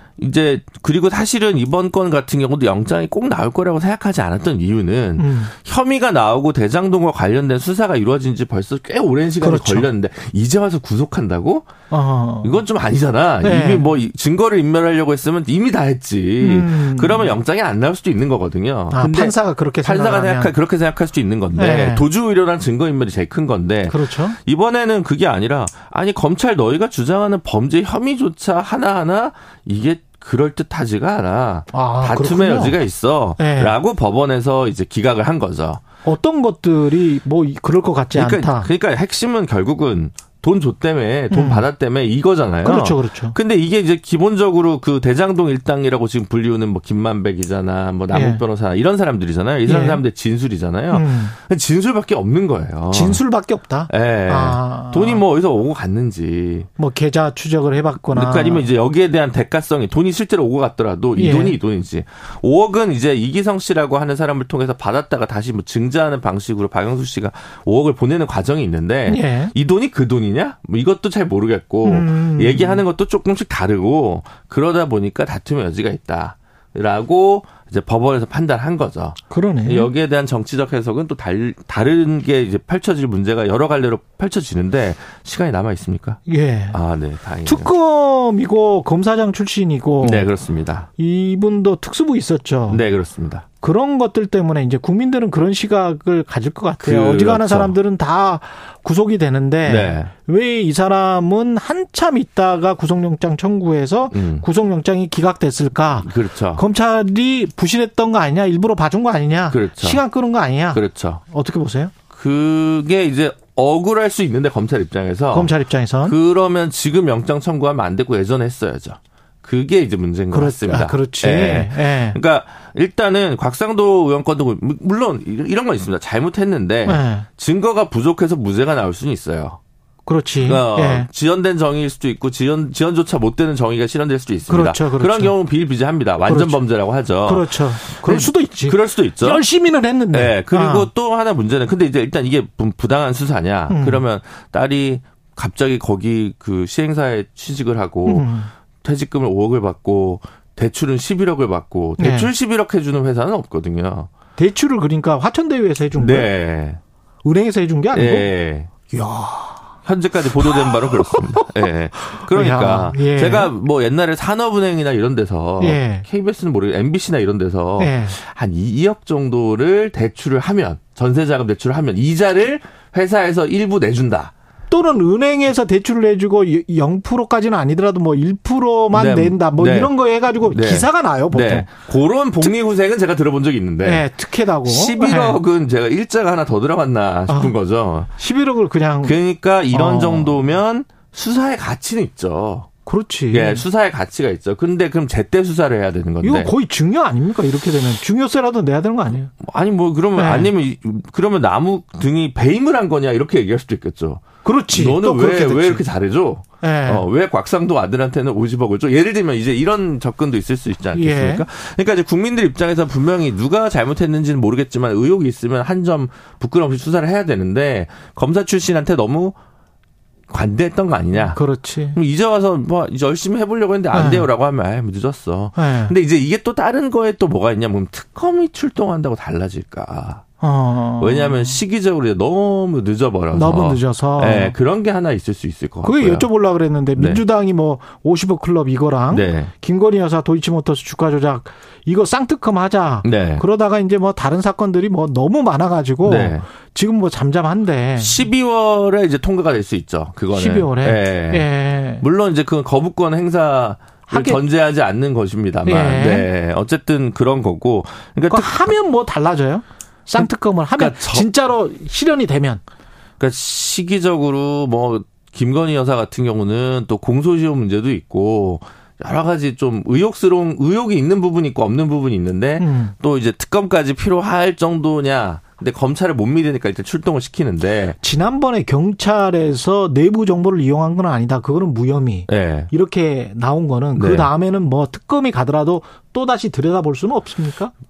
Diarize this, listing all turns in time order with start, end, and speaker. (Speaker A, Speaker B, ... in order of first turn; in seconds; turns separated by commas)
Speaker A: 0.2-11.7, Speaker B: 5.2-5.5, Speaker B: 9.4-9.9, Speaker B: 11.9-12.6, Speaker A: 12.4-35.8, Speaker B: 13.4-13.9, Speaker B: 16.4-17.3, Speaker B: 18.9-20.6, Speaker B: 21.5-22.1, Speaker B: 23.9-24.4, Speaker B: 31.7-32.8, Speaker B: 33.4-33.8, Speaker B: 36.0-38.7, Speaker A: 38.1-53.2, Speaker B: 41.3-41.7, Speaker B: 42.6-43.4, Speaker B: 48.1-48.4, Speaker B: 49.6-50.0, Speaker B: 50.9-51.3, Speaker B: 52.9-55.2, Speaker A: 53.9-56.7, Speaker B: 56.8-58.7, Speaker A: 58.1-86.2, Speaker B: 61.1-61.6, Speaker B: 69.0-69.5, Speaker B: 71.8-72.8, Speaker B: 79.3-79.9, Speaker B: 86.2-86.8, Speaker A: 86.7-87.7, Speaker B: 87.5-90.3, Speaker A: 90.0-90.9, Speaker B: 91.0-92.8, Speaker A: 92.7-93.4, Speaker B: 93.6-111.9, Speaker A: 96.8-97.7, Speaker A: 99.6-100.1, Speaker A: 104.1-104.5, Speaker A: 106.0-106.6, Speaker A: 109.5-110.0, Speaker A: 110.7-111.2, Speaker A: 112.1-115.5, Speaker B: 115.3-116.2, Speaker A: 116.0-129.6, Speaker B: 120.3-122.2, Speaker B: 126.8-127.3, Speaker B: 130.1-131.1, Speaker A: 130.4-139.4, Speaker B: 134.5-135.3, Speaker B: 136.2-136.6, Speaker B: 137.2-140.9, Speaker A: 140.1-148.3, Speaker B: 143.7-144.0, Speaker B: 148.0-148.5, Speaker A: 148.8-154.1, Speaker B: 152.0-152.3, Speaker B: 154.3-156.3, Speaker A: 155.9-156.8, Speaker B: 157.2-158.3, Speaker A: 157.9-158.7, Speaker B: 158.9-159.6, Speaker A: 159.8-174.3, Speaker B: 160.4-161.5, Speaker B: 162.0-163.5, Speaker B: 165.6-166.1, Speaker B: 167.8-168.2, Speaker B: 174.7-181.7, Speaker A: 178.9-184.1, Speaker B: 183.8-185.4, Speaker A: 184.6-188.1, Speaker B: 187.3-187.5, Speaker B: 188.2-189.2, Speaker A: 189.0-192.7, Speaker B: 189.7-190.4, Speaker B: 192.8-193.6, Speaker A: 193.3-196.5, Speaker B: 196.2-199.3, Speaker A: 199.4-219.3, Speaker B: 200.2-200.5, Speaker B: 204.4-205.8, Speaker B: 206.6-207.1, Speaker B: 210.9-211.4, Speaker A: 220.3-221.4, Speaker B: 221.2-222.0, Speaker A: 221.9-230.2, Speaker B: 223.9-224.3, Speaker B: 225.6-225.9, Speaker B: 230.4-231.5, Speaker A: 231.0-236.3, Speaker B: 233.3-234.5, Speaker B: 235.8-248.2, Speaker A: 236.9-237.2, Speaker A: 239.1-239.5, Speaker A: 243.0-243.4, Speaker A: 246.0-246.5, Speaker A: 248.0-251.5, Speaker B: 250.3-252.0, Speaker A: 252.0-258.7, Speaker B: 254.1-254.4, Speaker B: 255.6-256.3, Speaker B: 258.3-262.6, Speaker A: 260.2-261.3, Speaker A: 263.2-278.0, Speaker B: 272.6-272.9, Speaker B: 278.0-287.7, Speaker A: 282.3-282.7, Speaker A: 283.9-284.3